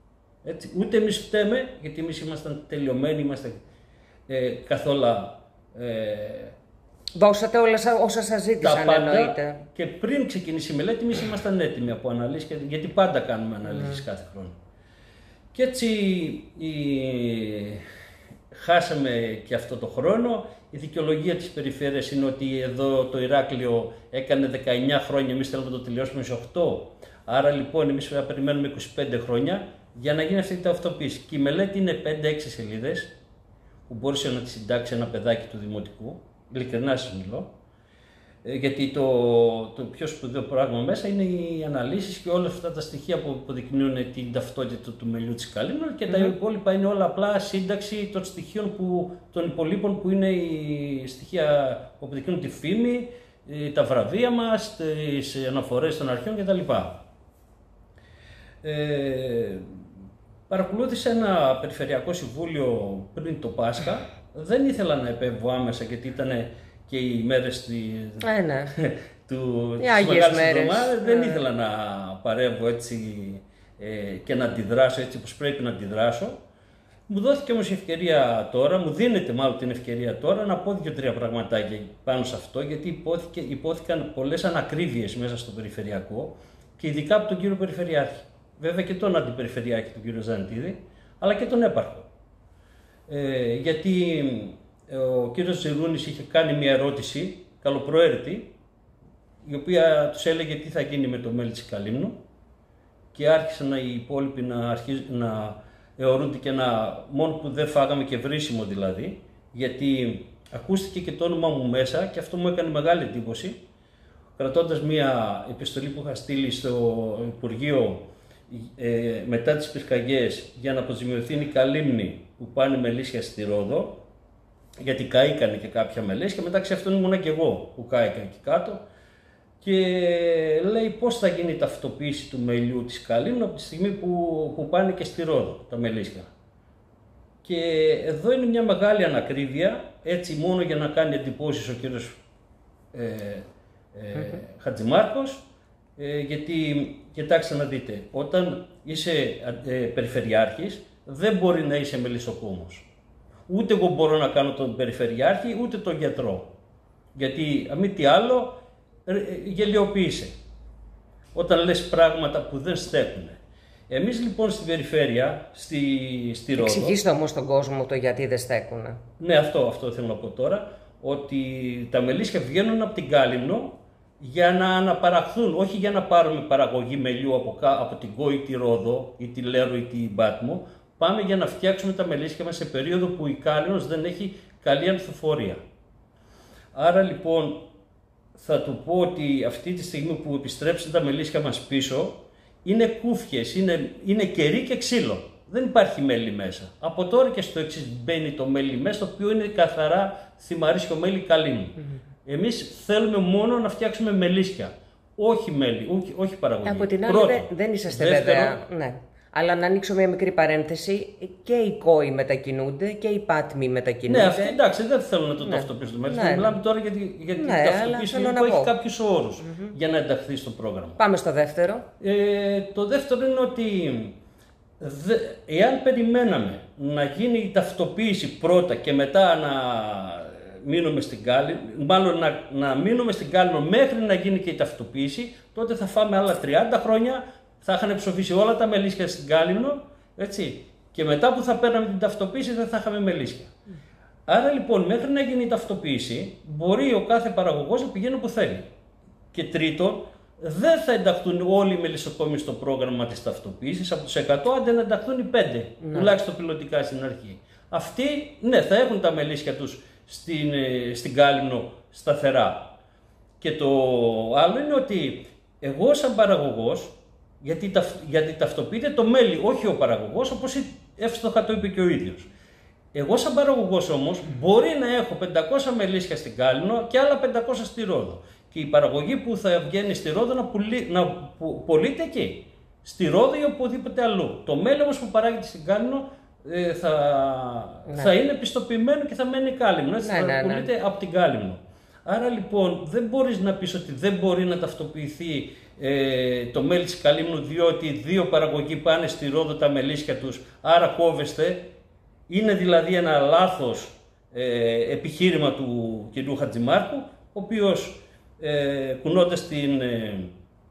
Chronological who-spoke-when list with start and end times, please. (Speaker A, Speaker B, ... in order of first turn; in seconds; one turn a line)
Speaker A: 0.4-3.6
Speaker A: 4.3-6.5
Speaker B: 7.2-9.6
Speaker A: 8.6-14.6
Speaker B: 13.7-14.0
Speaker A: 15.5-17.8
Speaker A: 18.5-33.1
Speaker A: 33.9-37.5
Speaker A: 38.4-57.0
Speaker A: 58.6-59.7
Speaker A: 60.5-76.4
Speaker B: 68.2-68.7
Speaker B: 69.8-71.4
Speaker A: 77.1-92.1
Speaker A: 93.1-98.5
Speaker A: 99.4-102.2
Speaker A: 103.1-113.6
Speaker A: 114.4-124.0
Speaker A: 124.8-128.8
Speaker A: 129.6-136.3
Speaker A: 137.4-142.2
Speaker A: 142.9-145.4
Speaker A: 146.0-152.9
Speaker A: 153.5-156.5
Speaker A: 157.2-160.3
Speaker A: 161.3-167.0
Speaker B: 166.6-169.0
Speaker A: 169.2-185.6
Speaker A: 186.7-187.7
Speaker A: 188.3-208.6
Speaker B: 206.7-214.6
Speaker A: 214.1-221.0
Speaker B: 215.4-216.6
Speaker B: 217.4-218.8
Speaker B: 219.4-219.7
Speaker B: 221.0-221.8
Speaker A: 222.0-224.2
Speaker A: 224.8-243.5
Speaker A: 244.3-248.7
Speaker A: 249.3-262.8
Speaker B: 255.8-256.1
Speaker A: 263.4-272.3
Speaker A: 272.9-301.7
Speaker B: 290.0-290.7
Speaker A: 302.3-310.3